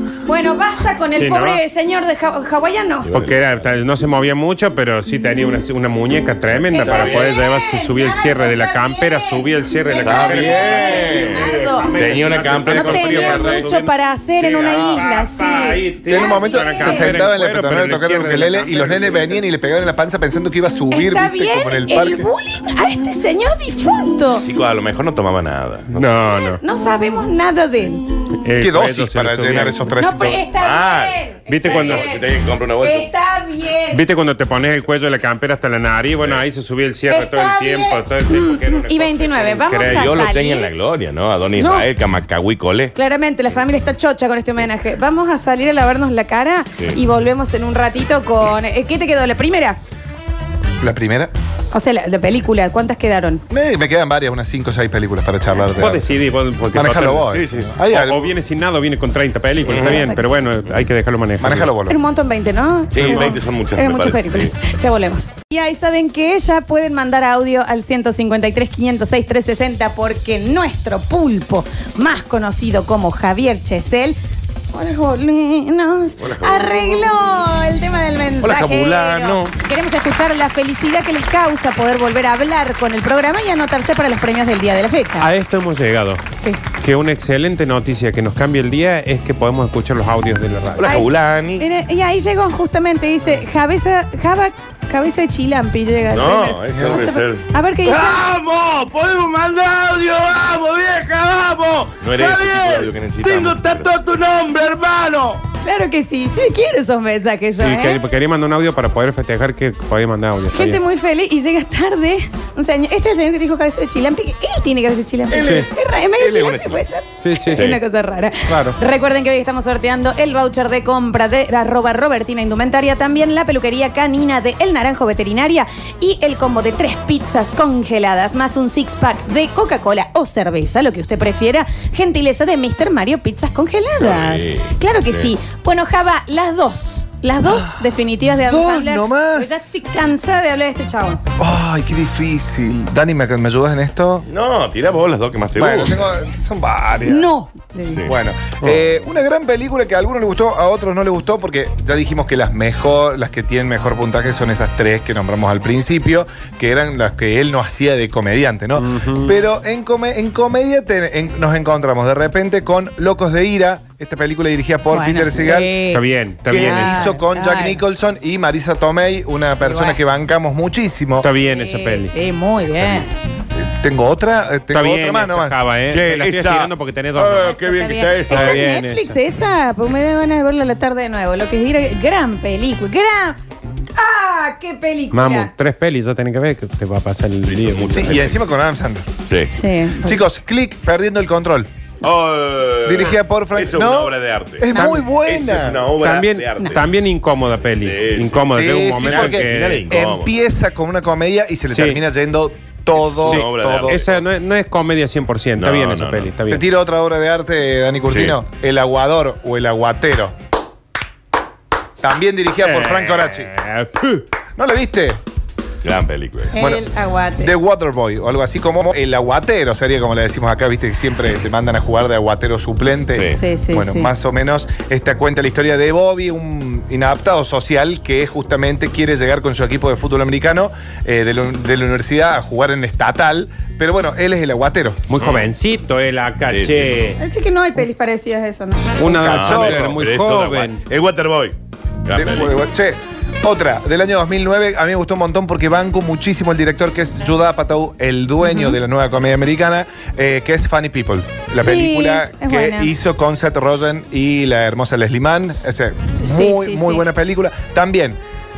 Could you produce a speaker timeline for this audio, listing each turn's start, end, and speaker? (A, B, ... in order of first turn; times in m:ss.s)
0:00.2-0:03.1 A
0:01.2-0:01.6 B
0:03.0-0:03.6 C
0:03.1-0:19.4 B
0:06.7-0:11.9 A
0:06.7-0:07.2 C
0:10.0-0:13.7 C
0:12.6-0:17.2 A
0:14.7-0:15.0 C
0:16.0-0:22.3 D
0:20.9-0:24.4 A
0:24.4-0:26.1 C
0:25.9-0:26.6 B
0:26.2-0:28.0 A
0:28.4-0:29.9 B
0:28.6-0:30.4 D
0:30.0-0:32.3 A
0:30.5-0:33.1 C
0:31.5-0:32.1 B
0:32.8-0:34.0 A
0:33.9-0:40.3 B
0:37.1-0:40.7 A
0:39.9-0:42.9 C
0:41.5-0:41.8 A
0:42.9-0:49.8 A
0:50.8-0:51.3 D
0:51.7-0:53.4 A
0:53.5-0:56.1 D
0:55.8-0:57.3 B
0:56.7-0:58.3 D
0:57.3-0:57.7 C
0:57.8-1:01.7 B
0:59.6-1:00.1 C
0:59.7-1:00.3 A
1:01.4-1:02.0 D
1:01.9-1:14.2 A
1:02.9-1:04.5 C
1:14.7-1:25.3 A
1:16.2-1:17.1 C
1:18.4-1:19.5 C
1:25.2-1:26.2 B
1:26.8-1:31.0 B
1:30.8-1:31.6 C
1:30.8-1:38.2 A
1:36.1-1:37.4 C
1:36.7-1:37.0 D
1:38.1-1:45.4 E
1:42.0-1:43.9 C
1:45.6-1:48.0 A
1:47.6-1:50.8 B
1:50.5-2:21.2 A
1:55.3-1:56.8 C
1:55.4-1:55.7 B
1:57.2-1:57.7 B
1:57.5-1:57.8 C
1:58.5-1:58.8 B
2:14.0-2:15.3 C
2:17.4-2:17.9 D
2:18.4-2:19.8 D
2:21.4-2:24.3 D
2:24.3-2:26.1 C
2:25.5-2:27.3 D
2:27.0-2:28.0 A
2:28.0-2:45.7 D
2:38.8-2:39.3 B
2:44.9-2:47.8 A
2:45.9-2:47.1 B
2:46.5-2:51.3 D
2:49.6-2:50.0 A
2:51.2-2:52.1 B
2:51.4-2:53.1 A
2:53.6-2:55.6 D
2:54.7-2:57.6 B
2:55.9-2:58.6 C
2:57.4-3:03.4 A
2:58.3-2:59.2 B
3:04.0-3:05.5 A
3:05.1-3:08.1 B
3:07.5-3:08.4 C
3:07.9-3:09.1 D
3:09.3-3:09.5 C
3:09.5-3:10.2 A
3:10.0-3:11.7 D
3:12.0-3:16.8 C
3:12.8-3:15.9 D
3:14.7-3:15.0 B
3:16.0-3:19.9 B
3:17.8-3:20.3 C
3:18.5-3:24.0 D
3:21.7-3:22.0 B
3:23.0-3:24.2 C
3:23.2-3:26.6 B
3:25.6-3:26.3 C
3:26.5-3:30.3 D
3:28.1-3:28.4 C
3:32.0-3:33.5 D
3:32.6-3:34.2 B
3:34.6-3:35.2 D
3:35.8-3:36.5 C
3:36.5-3:37.5 A
3:36.5-3:36.8 D
3:37.4-3:55.0 D
3:43.1-3:43.4 C
3:43.3-3:44.1 A
3:55.1-3:57.2 B
3:55.2-3:55.5 C
3:56.5-3:57.0 C
3:57.2-3:59.0 A
3:59.0-4:00.8 B
3:59.0-3:59.9 D
3:59.2-4:02.6 C
4:02.1-4:18.2 D
4:08.4-4:08.8 A
4:11.6-4:12.9 A
4:16.2-4:17.1 A